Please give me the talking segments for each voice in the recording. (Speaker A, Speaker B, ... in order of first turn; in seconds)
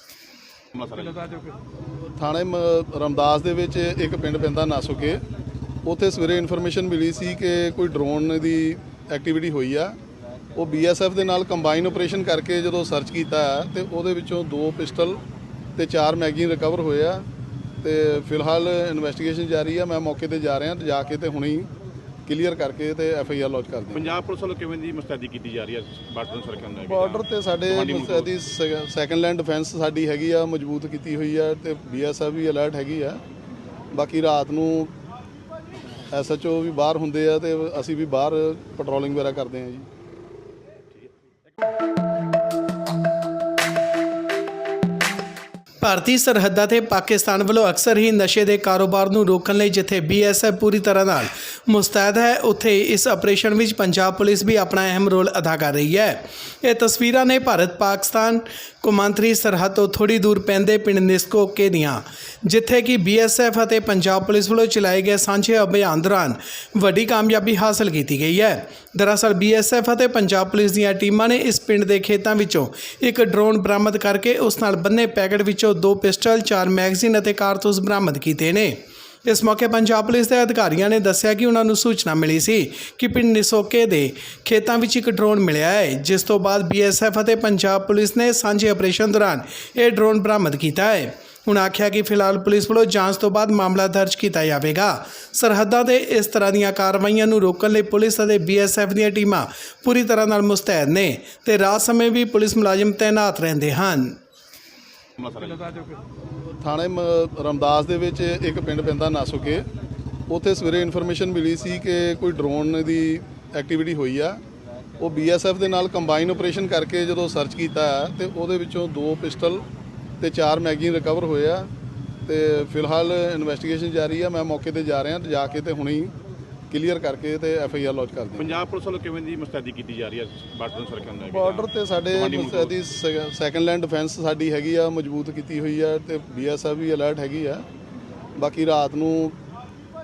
Speaker A: 0.7-1.4, 23.9-28.3, 105.2-105.8, 128.4-132.7
Speaker B: 2.1-5.2, 5.8-10.0, 10.5-15.2, 15.8-17.3, 17.8-21.7, 22.2-24.1, 26.8-33.2, 33.9-34.9, 36.1-39.9, 106.6-109.7, 110.3-114.4, 115.0-119.7, 120.2-121.7, 122.2-126.1, 126.7-128.6, 131.3-137.7, 138.3-139.4
Speaker C: 45.8-104.2